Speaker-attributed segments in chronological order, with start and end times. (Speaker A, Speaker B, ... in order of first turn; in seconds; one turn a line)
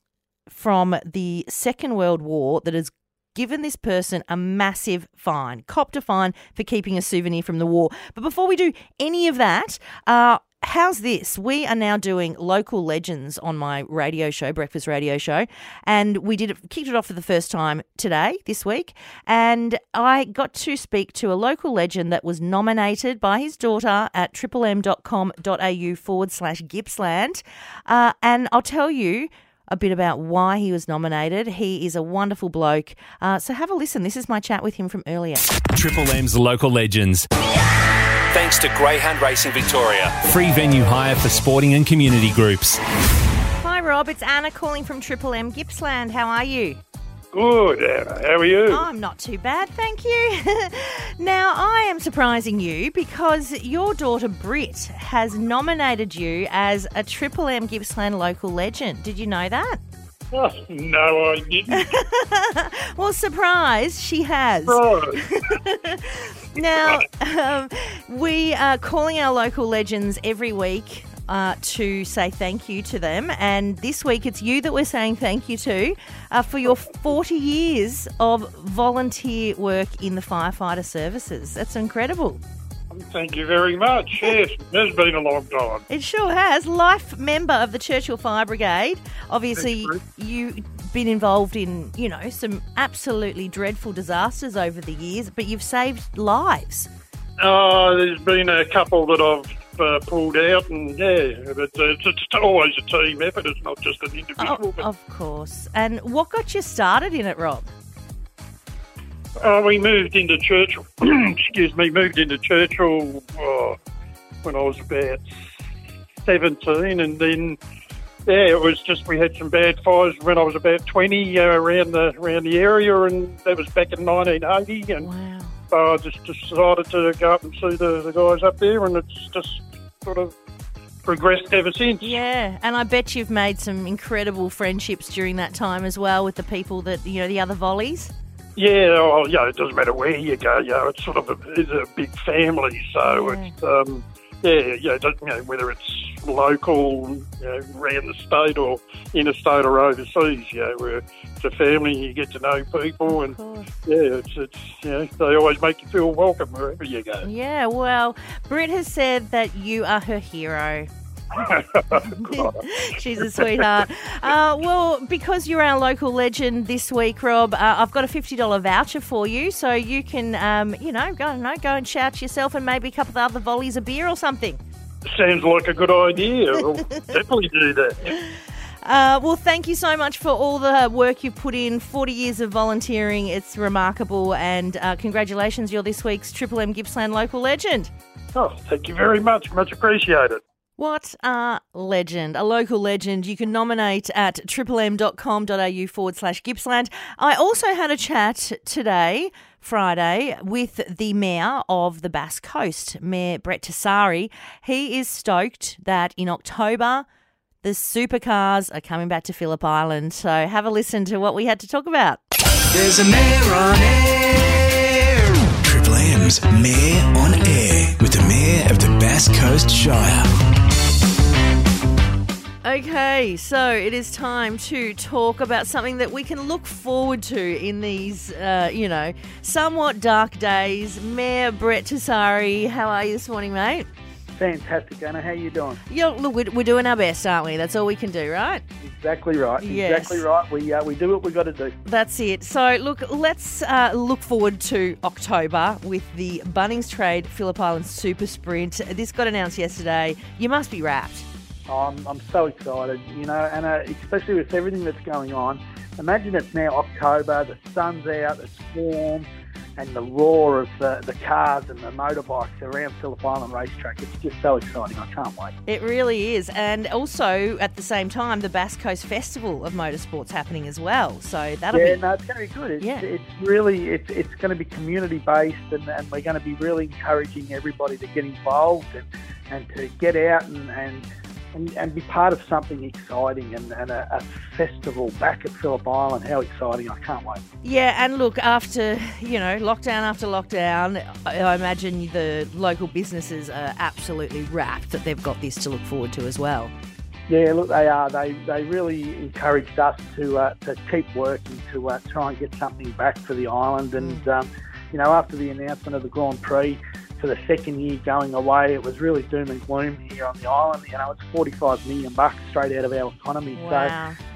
Speaker A: 0.5-35.5
Speaker B: 35.7-37.3
Speaker B: 38.3-42.8
Speaker A: 43.6-46.8
Speaker C: 47.3-48.9
Speaker A: 48.7-59.8
Speaker C: 60.3-62.0
Speaker A: 61.7-82.4
Speaker C: 64.7-65.3
Speaker C: 66.7-67.0
Speaker C: 82.9-85.8
Speaker A: 85.9-96.9
Speaker C: 89.6-90.0
Speaker C: 97.4-104.8
Speaker A: 104.4-107.7
Speaker C: 109.4-113.8
Speaker C: 114.4-115.3
Speaker C: 116.2-117.6
Speaker C: 118.3-125.1
Speaker A: 125.0-125.6
Speaker C: 125.7-130.3
Speaker C: 131.1-132.2
Speaker A: 132.0-138.1
Speaker C: 138.6-157.3
Speaker A: 143.0-143.6
Speaker A: 153.1-153.7
Speaker A: 157.2-160.9
Speaker C: 161.3-162.6
Speaker A: 162.0-174.6
Speaker C: 163.2-163.6
Speaker C: 175.1-178.2
Speaker A: 178.8-187.9
Speaker C: 188.3-190.4
Speaker A: 190.8-207.1
Speaker A: 207.6-212.2
Speaker D: 212.8-214.3
Speaker D: 215.6-220.3
Speaker A: 222.6-233.9
Speaker E: 234.3-235.8
Speaker A: 235.9-238.6
Speaker E: 238.8-241.8
Speaker A: 239.6-240.3
Speaker A: 241.8-251.3
Speaker E: 251.7-259.3
Speaker E: 259.8-265.5
Speaker A: 265.7-272.0
Speaker E: 271.7-287.4
Speaker A: 272.8-273.1
Speaker A: 287.6-296.7
Speaker E: 297.3-314.0
Speaker A: 304.0-304.3
Speaker A: 313.6-314.2